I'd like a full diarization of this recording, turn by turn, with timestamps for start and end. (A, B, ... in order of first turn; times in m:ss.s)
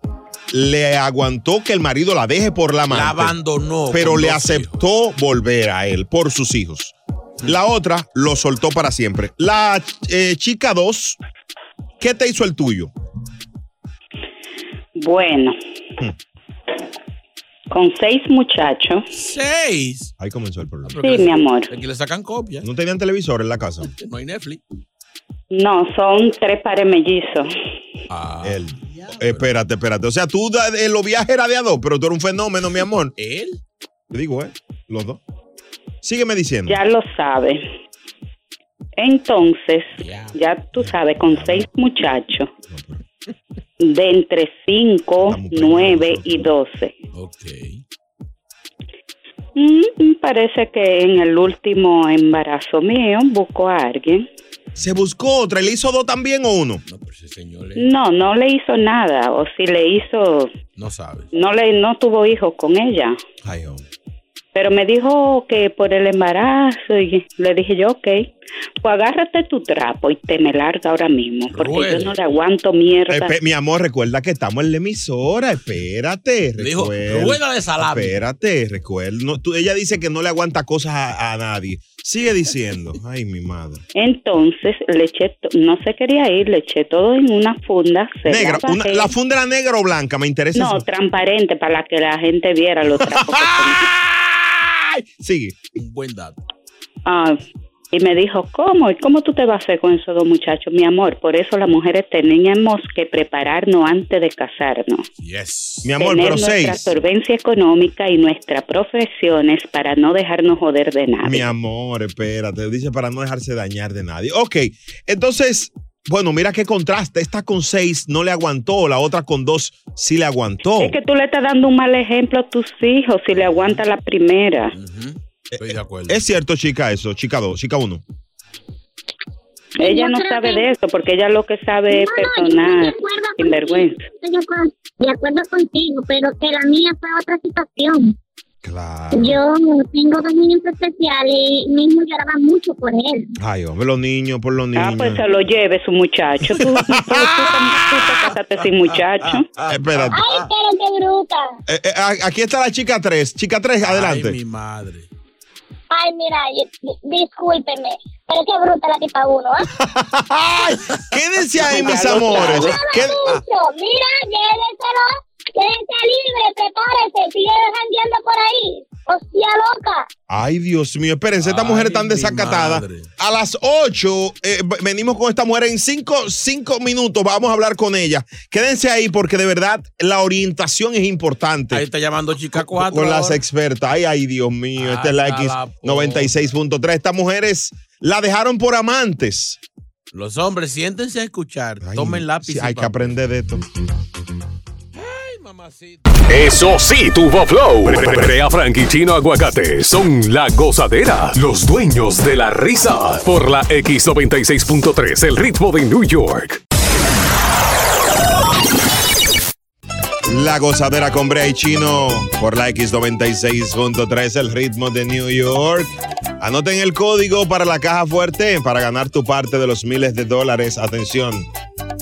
0:00.5-0:03.3 A
0:02.9-0:04.8 B
0:03.9-0:11.2 A
0:12.0-0:12.9 A
0:15.0-0:15.6 C
0:17.7-0:19.0 C
0:19.1-0:20.1 B
0:20.2-0:21.0 A
0:20.8-0:22.6 B
0:21.0-0:21.7 C
0:22.6-0:23.9 A
0:24.0-0:24.6 B
0:25.5-0:27.5 C
0:28.1-0:28.6 B
0:28.4-0:33.1 A
0:33.2-0:33.6 B
0:34.1-0:35.2 A
0:36.0-0:36.8 A
0:36.7-0:37.6 C
0:39.0-0:42.5 C
0:40.0-0:40.4 B
0:40.8-0:41.6 A
0:42.7-0:43.0 A
0:43.8-0:46.9 C
0:45.2-0:46.5 A
0:47.1-0:47.8 B
0:49.6-0:54.3 C
0:54.8-0:56.8 A
0:56.9-0:57.9 B
0:57.8-1:00.5 C
1:00.8-1:01.3 B
1:01.3-1:03.2 C
1:03.4-1:03.8 A
1:04.5-1:08.3 C
1:08.8-1:13.4 C
1:11.5-1:12.1 B
1:13.1-1:23.8 A
1:16.6-1:18.2 B
1:23.9-1:29.1 C
1:28.2-1:30.8 A
1:30.5-1:33.9 C
1:32.8-1:35.6 A
1:35.8-1:36.4 B
1:37.0-1:37.4 C
1:37.9-1:45.0 C
1:45.2-1:45.9 B
1:45.8-1:46.9 A
1:46.0-1:51.5 C
1:51.2-2:01.0 A
2:00.7-2:04.7 C
2:04.7-2:06.3 B
2:05.5-2:08.0 A
2:09.8-2:14.1 C
2:09.8-2:10.6 D
2:11.9-2:18.1 D
2:18.6-2:19.4 A
2:19.1-2:23.3 D
2:23.4-2:25.2 A
2:24.7-2:29.5 C
2:26.6-2:27.6 A
2:29.6-2:30.3 A
2:30.1-2:31.4 D
2:31.7-2:34.4 A
2:33.8-2:35.1 B
2:35.9-2:39.7 D
2:39.6-2:43.4 A
2:41.6-2:42.9 C
2:42.6-2:50.1 D
2:50.3-3:01.8 A
2:51.4-2:53.1 B
3:01.7-3:03.4 B
3:02.8-3:09.6 A
3:04.8-3:06.3 B
3:10.1-3:13.1 B
3:11.8-3:13.6 A
3:14.9-3:16.0 B
3:16.3-3:26.6 E
3:30.3-3:41.5 A